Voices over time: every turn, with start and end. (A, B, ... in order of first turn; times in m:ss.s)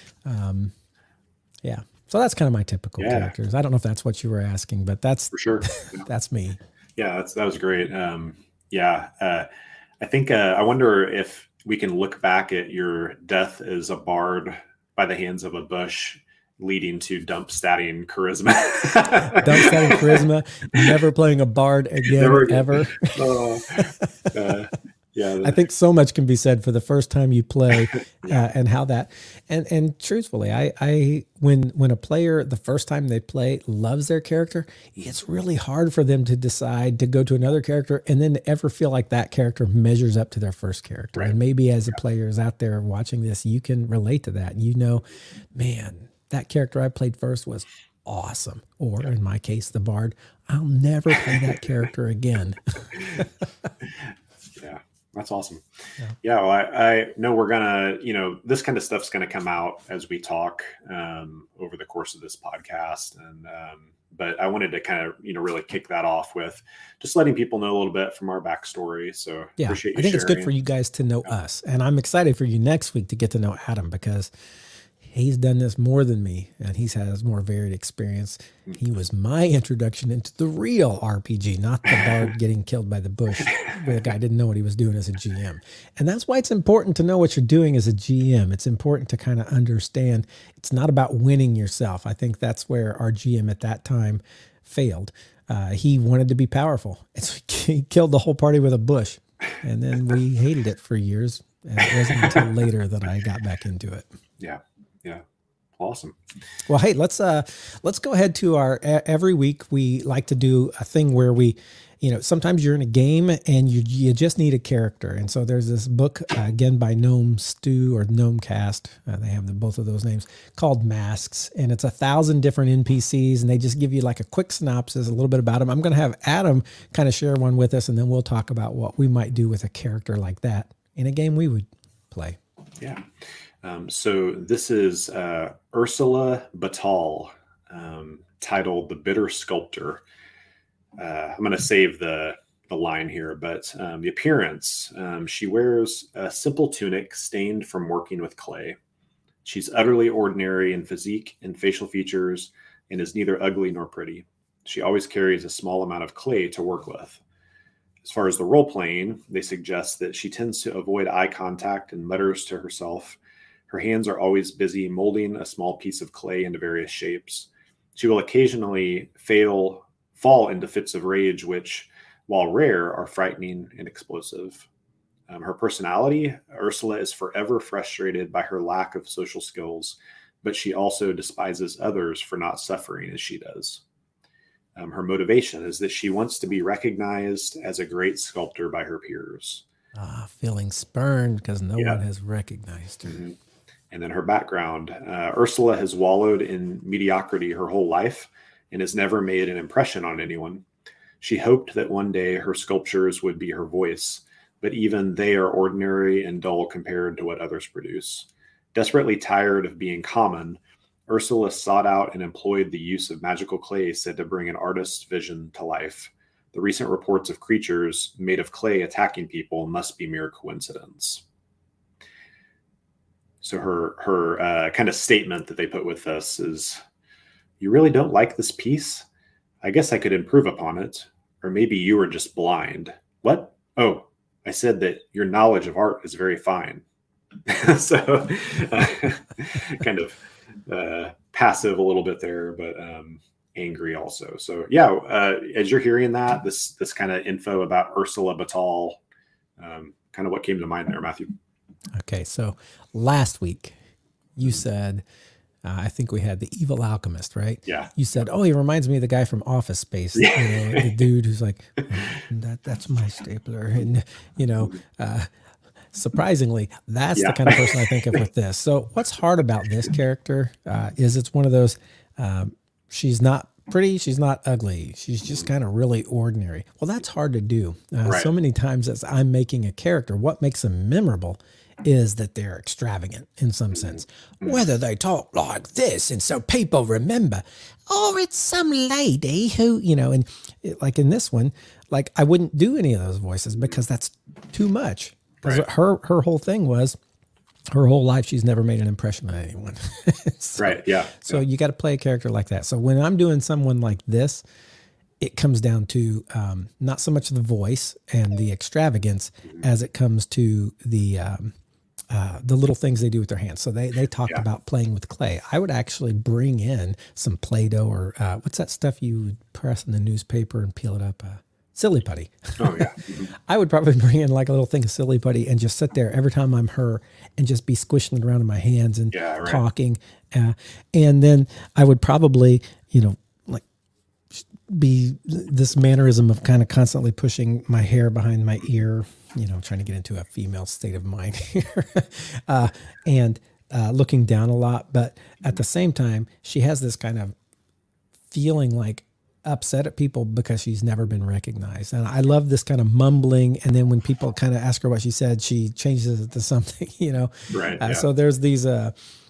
0:00.2-0:00.7 A
0:01.6-0:06.6 A
0:03.0-0:03.3 B
0:05.3-0:06.0 B
0:07.0-0:09.5 B
0:10.0-0:20.2 B
0:19.3-0:23.1 A
0:22.0-0:25.6 B
0:23.7-0:24.3 A
0:25.4-0:53.7 A
0:28.2-0:28.5 B
0:54.6-0:55.6 B
0:56.2-1:10.5 B
1:09.6-1:14.3 A
1:15.0-1:44.1 A
1:23.5-1:23.8 B
1:42.1-1:42.4 B
1:44.4-1:45.2 B
1:45.8-1:46.2 B
1:46.6-2:12.4 A
2:13.6-2:20.0 B
2:21.0-2:28.8 B
2:29.4-2:37.2 B
2:38.0-2:54.6 B
2:55.3-3:03.8 B
3:04.8-3:09.6 B
3:09.9-3:13.2 A
3:13.0-3:13.4 B
3:13.9-3:20.6 B
3:21.2-3:41.2 B
3:43.4-3:46.8 B
3:47.6-3:49.0 B
3:49.6-3:56.8 B
3:57.5-4:09.0 B
4:09.6-4:11.3 B
4:11.9-4:13.7 A
4:14.4-4:15.0 A
4:15.6-4:25.3 A
4:17.6-4:17.9 B
4:20.2-4:21.0 B
4:25.9-4:57.0 A
4:27.2-4:28.2 B
4:38.0-4:38.3 B
4:43.9-4:44.6 B
4:57.7-5:04.4 A
5:00.6-5:01.4 B
5:05.2-5:11.5 A
5:12.1-5:33.6 A
5:22.6-5:23.3 B
5:29.1-5:29.6 B
5:34.3-5:47.3 A
5:48.3-5:58.9 A
5:57.5-5:58.1 B